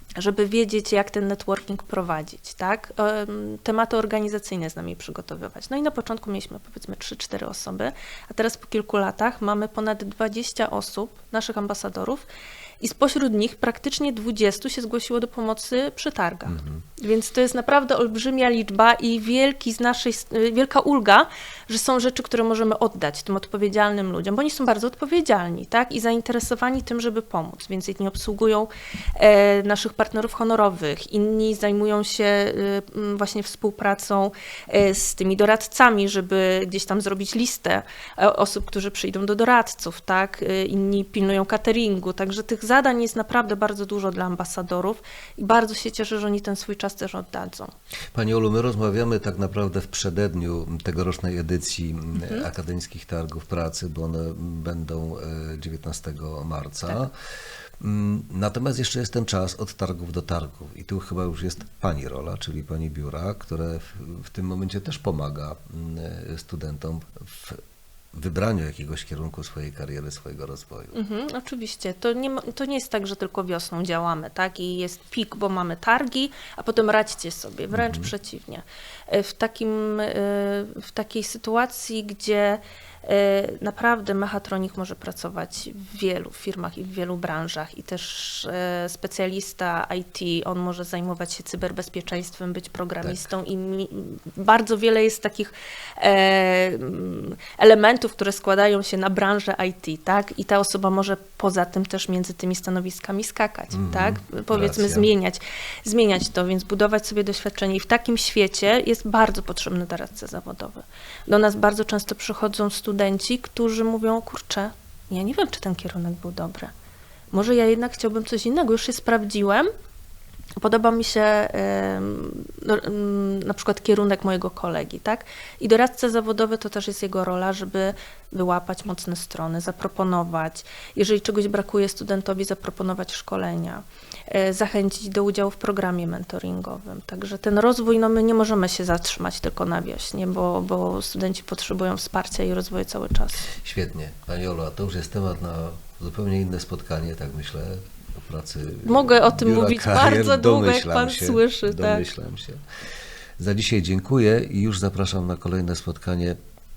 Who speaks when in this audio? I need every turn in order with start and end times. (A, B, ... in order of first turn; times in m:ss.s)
0:00.1-0:12.2 A
0:12.8-0:47.7 A
0:16.5-0:16.8 B
0:48.1-0:57.1 B
0:52.2-0:52.5 A
0:57.8-1:07.6 B
1:08.1-1:11.0 B
1:10.9-1:56.7 A
1:17.7-1:18.1 B
1:43.7-1:45.1 B
1:57.3-1:59.7 A
2:00.6-2:23.5 A
2:23.6-2:32.6 B
2:28.8-2:32.1 A
2:33.4-2:36.4 B